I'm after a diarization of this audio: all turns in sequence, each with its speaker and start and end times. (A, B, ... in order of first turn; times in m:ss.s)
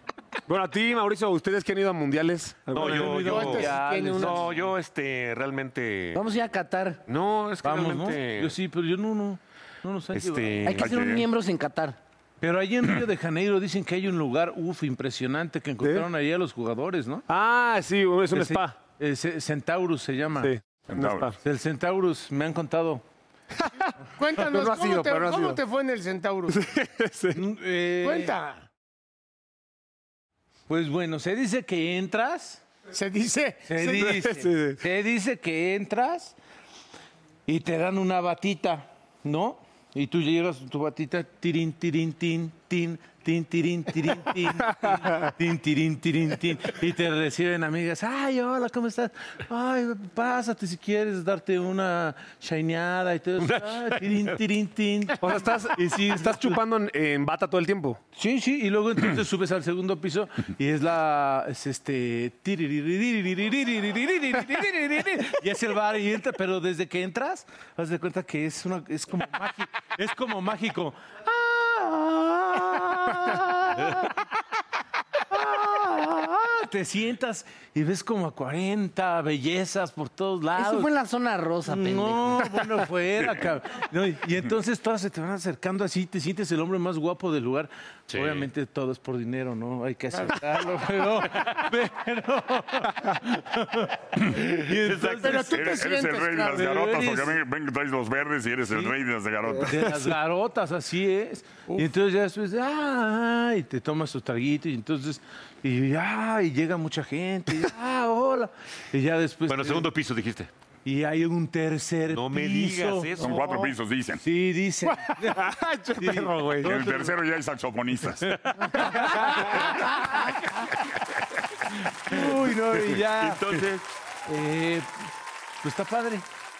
0:00.5-0:03.4 A
0:02.7-0:04.5 B
0:02.7-0:06.2 C
0:03.2-0:04.4 D
0:06.1-0:07.0 E
0:07.1-0:08.6 C
0:07.6-0:10.7 B
0:10.1-0:10.9 C
0:10.6-0:12.0 E
0:10.8-0:11.2 F
0:12.4-0:17.2 B
0:15.8-0:16.0 A
0:17.3-0:18.8 A
0:18.3-0:20.5 B
0:20.4-0:21.4 A
0:20.9-0:21.3 F
0:21.4-0:23.0 B
0:23.6-0:23.9 A
0:24.2-0:26.6 D
0:24.5-0:25.6 A
0:26.5-0:27.4 A
0:27.3-0:28.3 B
0:28.0-0:28.6 D
0:30.7-0:32.6 B
0:32.9-0:34.2 D
0:33.7-0:36.4 B
0:33.9-0:34.8 A
0:37.5-0:56.6 B
0:53.4-0:54.4 C
0:55.2-0:58.0 A
0:58.1-1:14.1 B
1:15.3-1:20.9 B
1:20.6-1:22.6 E
1:21.7-1:35.5 B
1:28.1-1:28.5 C
1:34.7-1:35.5 C
1:35.2-1:36.7 D
1:35.5-1:40.1 F
1:36.5-1:37.4 B
1:39.5-1:49.9 B
1:49.5-1:50.5 C
1:50.8-1:53.2 B
1:52.1-1:53.4 C
1:53.2-1:54.2 F
1:54.2-1:57.1 B
1:54.9-1:56.7 A
1:56.7-1:58.3 F
1:58.2-1:59.8 B
1:58.8-1:59.3 A
2:02.1-2:03.6 B
2:02.9-2:03.8 C
2:04.3-2:04.9 B
2:05.6-2:06.2 B